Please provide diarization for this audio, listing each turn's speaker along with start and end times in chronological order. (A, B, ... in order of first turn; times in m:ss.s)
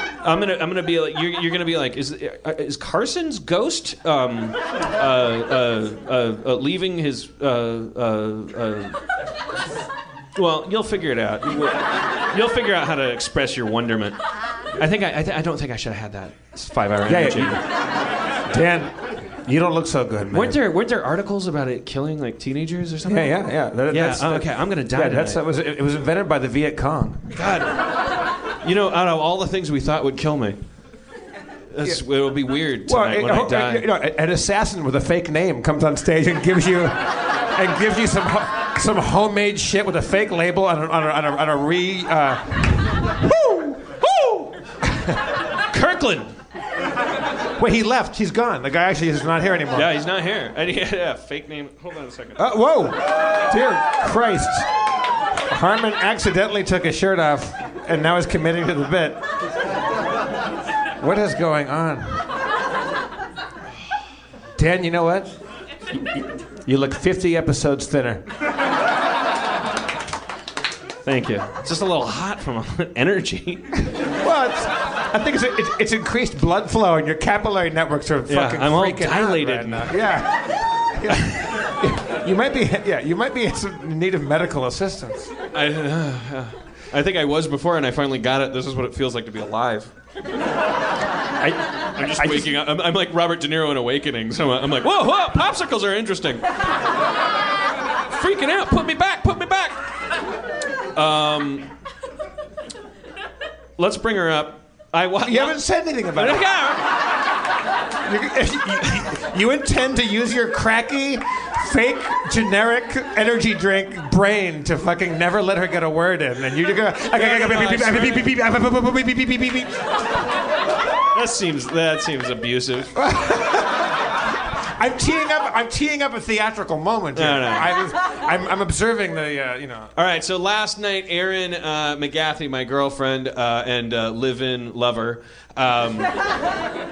0:00.2-0:09.0 A
0:10.3-0:14.2 A
0:14.8-0:17.6 A
0:17.0-0:17.6 B
0:18.5-0:20.6 B
0:20.3-0:25.4 A
0:23.0-0:27.3 B
0:27.3-0:28.0 A
0:28.6-0:30.6 A
0:31.7-0:33.8 A
0:32.8-0:45.2 B
0:45.7-0:46.3 A
0:47.6-0:49.9 B
0:49.7-0:52.4 A
0:52.4-0:54.7 B
0:55.4-0:59.2 B
1:01.0-1:02.3 B
1:04.6-1:05.3 B
1:06.6-1:08.2 B
1:11.0-1:13.8 A
1:14.2-1:25.3 B
1:18.3-1:20.0 A
1:21.1-1:21.5 A
1:25.5-1:29.9 A
1:31.4-1:32.5 B
1:31.8-1:36.5 A
1:38.1-1:39.8 A
1:40.9-1:41.7 A
1:43.8-1:45.6 A
1:45.2-1:46.4 B
1:46.1-1:46.9 A
1:48.0-1:59.9 B
1:57.1-1:58.3 A
2:01.1-2:02.9 A
2:02.9-2:04.1 B
2:04.6-2:09.9 B
2:07.2-2:07.8 A
2:10.0-2:16.1 A